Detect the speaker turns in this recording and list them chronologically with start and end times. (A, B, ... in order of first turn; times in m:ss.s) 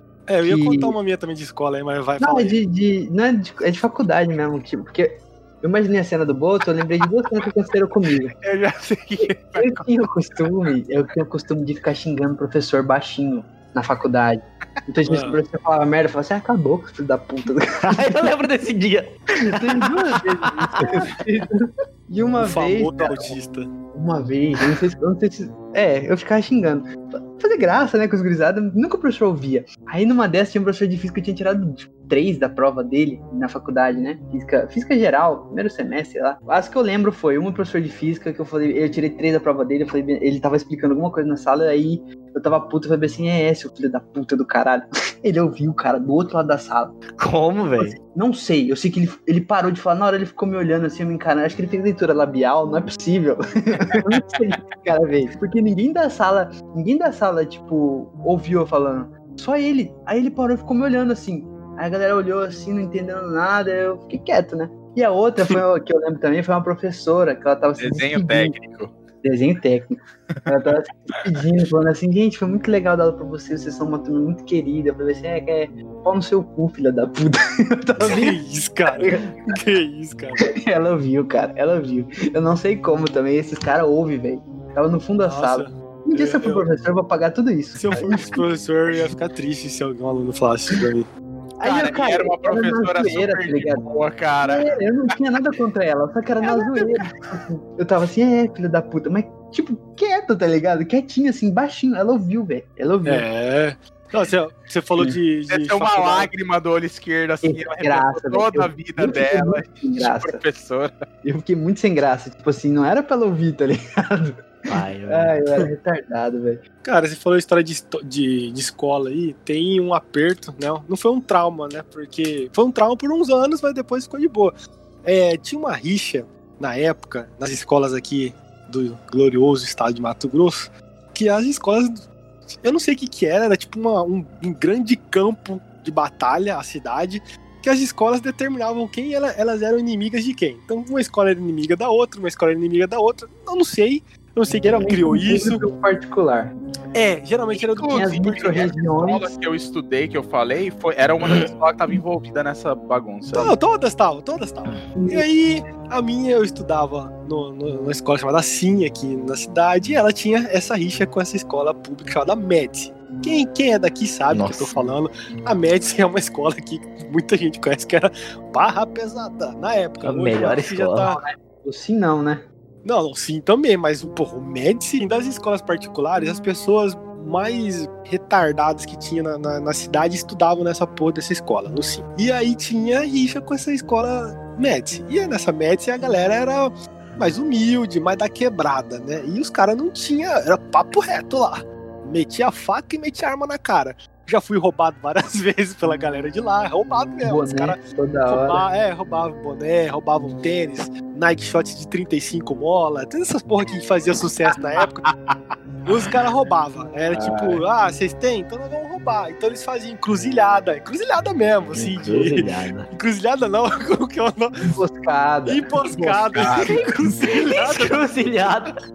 0:00.3-0:02.6 A
0:00.4-0:01.0 B
0:02.2-0:08.3 B
0:08.4-0:09.9 C
0:09.2-0:18.2 B
0:15.1-0:15.4 A
0:17.8-0:19.1 D
0:19.5-0:23.4 B
0:22.4-0:23.7 A
0:23.9-0:47.0 B
0:47.2-0:48.0 D
0:47.8-1:08.6 B
1:07.8-1:08.9 C
1:09.2-1:18.4 B
1:18.0-1:20.4 A
1:18.9-1:19.4 B
1:20.4-1:28.9 B
1:25.2-1:26.6 A
1:27.8-1:31.1 A
1:31.6-1:33.9 B
1:31.6-1:34.7 C
1:34.4-1:43.3 B
1:36.4-1:36.9 C
1:43.1-1:46.3 A
1:45.5-1:50.9 C
1:47.4-1:50.4 B
1:51.2-1:54.6 B
1:54.7-1:55.4 D
1:55.1-1:56.6 B
1:56.8-2:25.6 A
2:24.7-2:26.5 B
2:27.0-2:28.7 A
2:27.6-2:33.6 C
2:27.8-2:29.3 B
2:33.3-2:51.2 A
2:44.3-2:44.7 D
2:50.0-2:51.2 D
2:50.4-2:52.4 B
2:52.8-3:25.1 A
3:17.2-3:18.6 B
3:25.1-3:25.4 C
3:25.9-3:34.8 A
3:27.1-3:27.6 C
3:31.7-3:32.9 D
3:34.6-3:36.9 B
3:35.5-3:38.2 A
3:36.4-3:36.8 C
3:37.2-3:38.8 D